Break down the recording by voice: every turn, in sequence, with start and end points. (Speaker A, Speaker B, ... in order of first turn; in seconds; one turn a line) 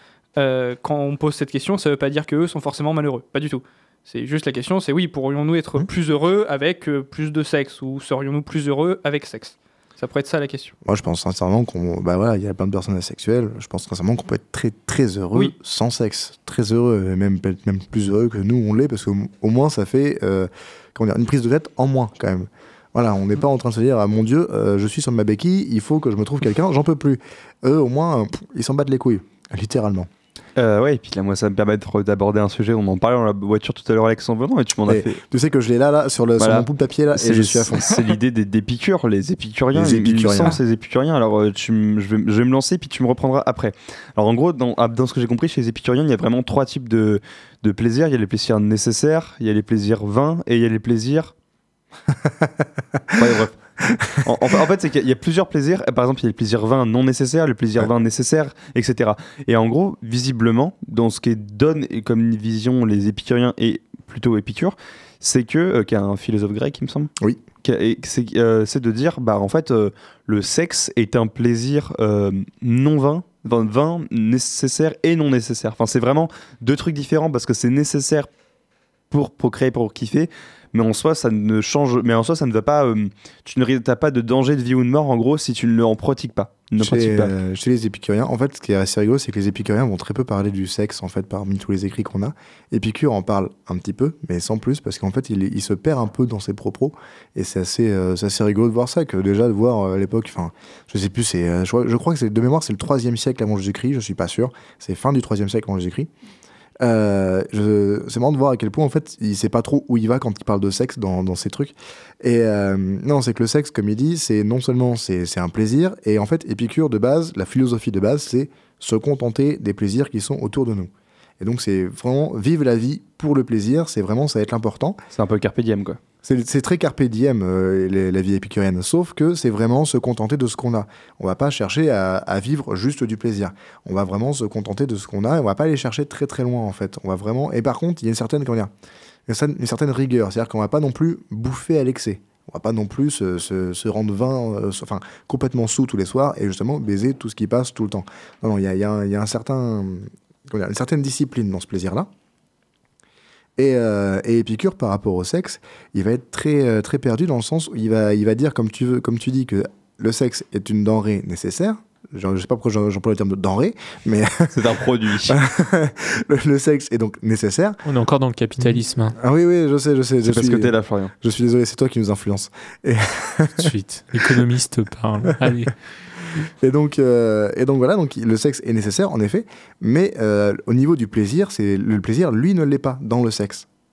Speaker A: 0.4-10.7
Speaker B: 10.8-30.1
Speaker C: 30.6-35.2
Speaker B: 34.9-37.9
Speaker C: 36.4-51.3
Speaker B: 39.7-40.6
Speaker B: 52.2-53.2
Speaker C: 53.1-53.5
Speaker B: 53.9-54.2
Speaker C: 54.2-67.1
Speaker C: 67.6-78.3
Speaker C: 79.1-87.3
Speaker B: 86.8-106.1
Speaker B: 106.8-125.0
Speaker C: 125.1-126.0
Speaker B: 126.2-138.7
Speaker B: 139.3-152.1
Speaker B: 153.6-164.6
Speaker C: 164.5-165.4
Speaker B: 165.3-167.8
Speaker D: 167.8-169.2
Speaker B: 168.6-174.4
Speaker C: 170.2-171.1
Speaker D: 173.6-175.7
Speaker B: 176.6-183.7